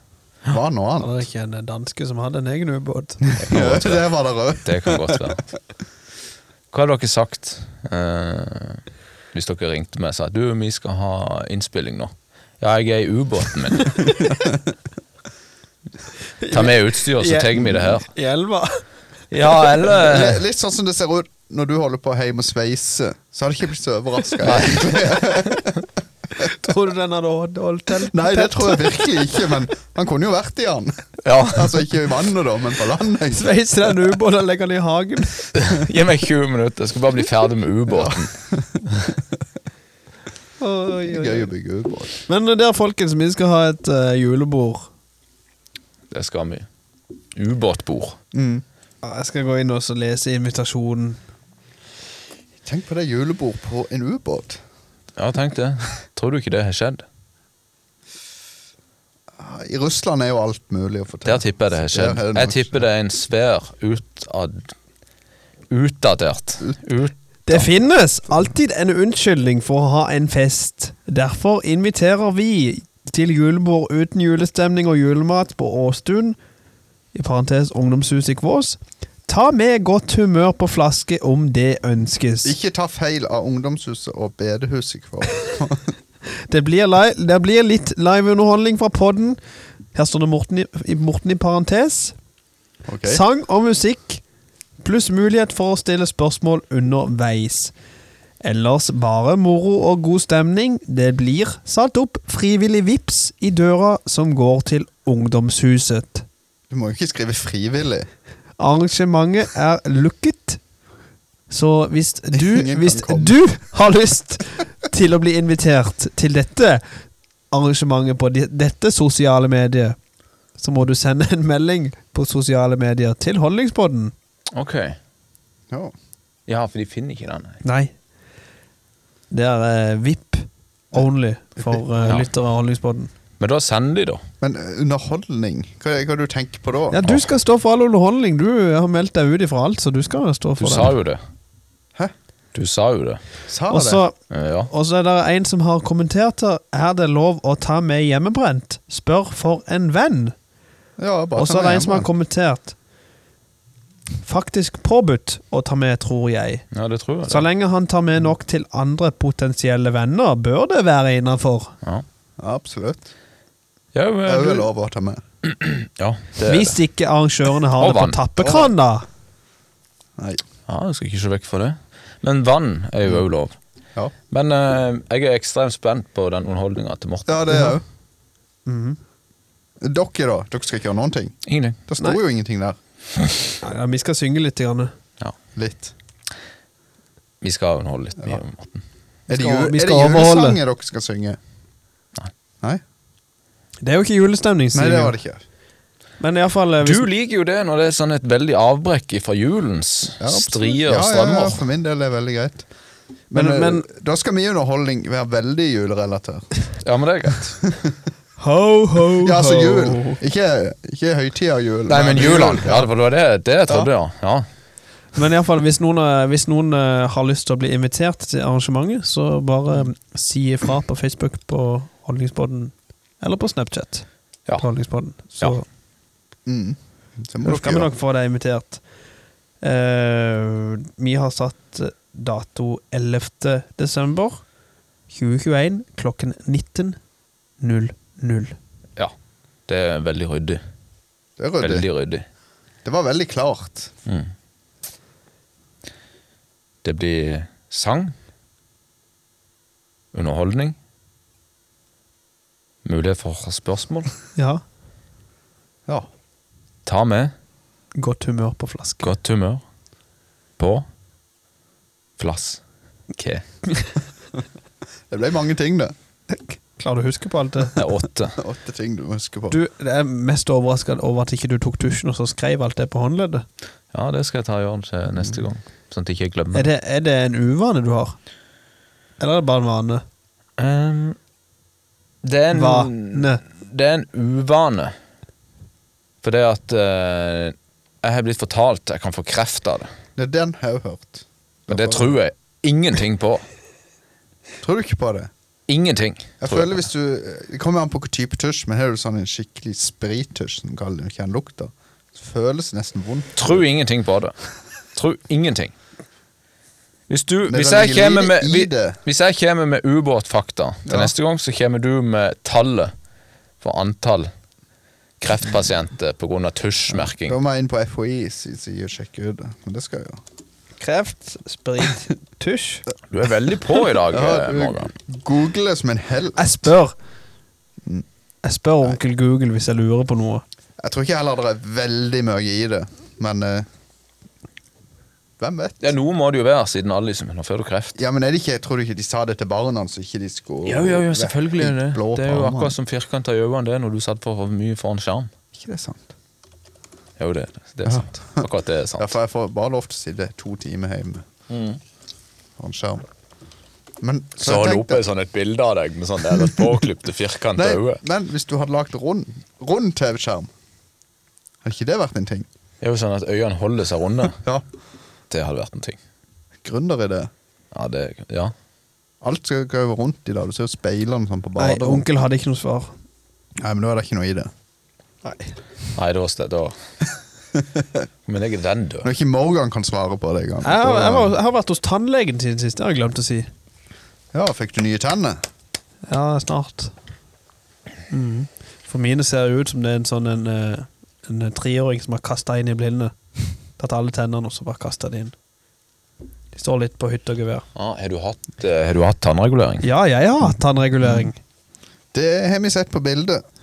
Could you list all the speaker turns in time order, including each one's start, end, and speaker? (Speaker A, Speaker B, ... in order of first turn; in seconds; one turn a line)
Speaker A: 0.5-1.1
Speaker B: 1.0-3.2
Speaker A: 3.3-5.2
Speaker C: 3.4-4.1
Speaker C: 4.6-5.4
Speaker C: 6.7-14.1
Speaker B: 16.4-18.8
Speaker C: 16.5-18.1
Speaker C: 19.3-20.4
Speaker A: 19.9-25.8
Speaker C: 24.4-25.3
Speaker B: 26.4-29.1
Speaker A: 28.1-33.5
Speaker C: 31.2-31.8
Speaker B: 33.3-35.5
Speaker C: 35.5-38.3
Speaker A: 38.0-38.6
Speaker B: 40.6-41.5
Speaker A: 41.1-42.2
Speaker B: 42.3-44.9
Speaker C: 46.1-46.7
Speaker C: 47.4-48.2
Speaker A: 48.3-48.6
Speaker B: 49.0-51.2
Speaker A: 52.6-54.6
Speaker C: 55.2-57.0
Speaker A: 59.4-62.8
Speaker C: 61.3-64.7
Speaker C: 65.7-67.7
Speaker B: 67.5-76.4
Speaker B: 77.1-82.5
Speaker A: 82.4-85.9
Speaker B: 86.5-89.4
Speaker B: 89.9-92.2
Speaker A: 92.9-93.2
Speaker B: 93.1-94.2
Speaker B: 94.8-97.7
Speaker B: 98.4-106.3
Speaker A: 106.7-108.1
Speaker B: 108.6-110.6
Speaker B: 111.5-116.8
Speaker A: 112.3-113.4
Speaker B: 117.5-120.0
Speaker B: 120.6-124.1
Speaker C: 124.5-125.0
Speaker C: 126.5-127.6
Speaker B: 127.6-127.9
Speaker B: 129.3-133.1
Speaker C: 133.4-134.2
Speaker A: 134.4-137.1
Speaker B: 136.9-140.9
Speaker C: 137.0-137.3
Speaker C: 140.6-141.2
Speaker C: 142.6-143.2
Speaker A: 143.5-144.0
Speaker B: 143.7-144.2
Speaker C: 144.3-144.7
Speaker B: 144.7-150.3
Speaker A: 151.0-152.1
Speaker B: 151.4-152.8
Speaker B: 154.2-156.7
Speaker C: 156.7-157.5
Speaker B: 157.3-161.7
Speaker A: 162.4-163.1
Speaker C: 163.9-164.7
Speaker A: 164.2-165.2
Speaker C: 165.4-166.8
Speaker B: 166.4-169.1
Speaker C: 167.8-168.2
Speaker A: 168.4-168.7
Speaker A: 170.2-170.4
Speaker C: 170.7-173.6
Speaker C: 174.3-177.5
Speaker A: 177.3-177.8
Speaker B: 178.7-179.0
Speaker A: 179.8-182.8
Speaker C: 181.5-181.8
Speaker B: 183.6-184.9
Speaker A: 185.6-185.9
Speaker C: 187.4-188.8
Speaker A: 189.3-191.4
Speaker B: 189.3-190.6
Speaker B: 193.8-195.2
Speaker A: 194.7-195.4
Speaker B: 196.2-197.1
Speaker C: 196.8-201.6
Speaker A: 200.2-202.7
Speaker B: 203.3-203.9
Speaker A: 203.3-206.5
Speaker C: 206.8-207.6
Speaker A: 207.7-207.9
Speaker B: 208.4-210.2
Speaker A: 209.2-212.9
Speaker C: 211.9-214.5
Speaker B: 215.2-224.1
Speaker B: 224.6-225.7
Speaker A: 226.5-227.9
Speaker B: 227.4-228.8
Speaker B: 229.6-234.4
Speaker B: 235.1-237.0
Speaker B: 237.6-238.6
Speaker C: 239.7-240.6
Speaker A: 241.4-241.8
Speaker C: 241.6-242.2
Speaker A: 242.8-243.9
Speaker C: 246.8-248.1
Speaker C: 250.1-250.8
Speaker C: 252.8-254.1
Speaker B: 254.4-254.6
Speaker C: 256.9-257.3
Speaker B: 258.0-259.1
Speaker C: 259.0-259.6
Speaker C: 260.6-260.9
Speaker C: 262.2-262.6
Speaker C: 263.1-263.4
Speaker A: 265.1-265.9
Speaker B: 266.3-267.8
Speaker C: 267.8-268.4
Speaker A: 268.4-269.6
Speaker B: 269.5-273.4
Speaker C: 273.9-276.7
Speaker B: 276.5-278.2
Speaker B: 279.2-280.0
Speaker C: 280.6-281.2
Speaker C: 282.2-284.9
Speaker B: 282.5-283.4
Speaker C: 286.2-289.9
Speaker A: 290.2-292.2
Speaker C: 291.7-293.4
Speaker A: 294.6-295.3
Speaker C: 295.7-296.8
Speaker A: 296.4-303.6
Speaker C: 303.4-304.3
Speaker C: 305.0-305.7
Speaker C: 307.1-312.9
Speaker A: 307.5-309.0
Speaker A: 310.9-311.1
Speaker C: 313.6-314.3
Speaker C: 315.2-317.4
Speaker A: 317.2-320.2
Speaker B: 320.8-322.9
Speaker C: 323.1-324.9
Speaker A: 324.0-326.6
Speaker B: 326.4-326.9
Speaker B: 328.4-330.4
Speaker A: 330.8-333.7
Speaker A: 335.4-335.9
Speaker C: 335.8-338.0
Speaker A: 338.0-342.8
Speaker C: 340.6-345.3
Speaker A: 345.6-346.1
Speaker C: 347.2-349.1
Speaker A: 347.9-348.5
Speaker A: 349.0-351.2
Speaker C: 351.5-351.8
Speaker A: 352.6-353.1
Speaker A: 354.0-355.0
Speaker C: 354.4-358.0
Speaker A: 357.6-360.5
Speaker A: 361.6-362.5
Speaker C: 362.8-364.4
Speaker C: 365.3-366.0
Speaker A: 366.6-367.3
Speaker C: 367.7-368.5
Speaker A: 369.2-372.1
Speaker B: 371.6-372.9
Speaker A: 373.6-374.5
Speaker B: 375.2-375.6
Speaker C: 375.9-376.7
Speaker A: 377.6-377.9
Speaker C: 378.3-379.1
Speaker A: 379.0-381.4
Speaker B: 380.6-383.5
Speaker A: 384.3-385.4
Speaker B: 386.1-386.9
Speaker B: 388.1-393.1
Speaker B: 393.8-395.4
Speaker B: 396.5-397.6
Speaker C: 397.8-399.9
Speaker B: 399.8-401.4
Speaker A: 402.1-403.4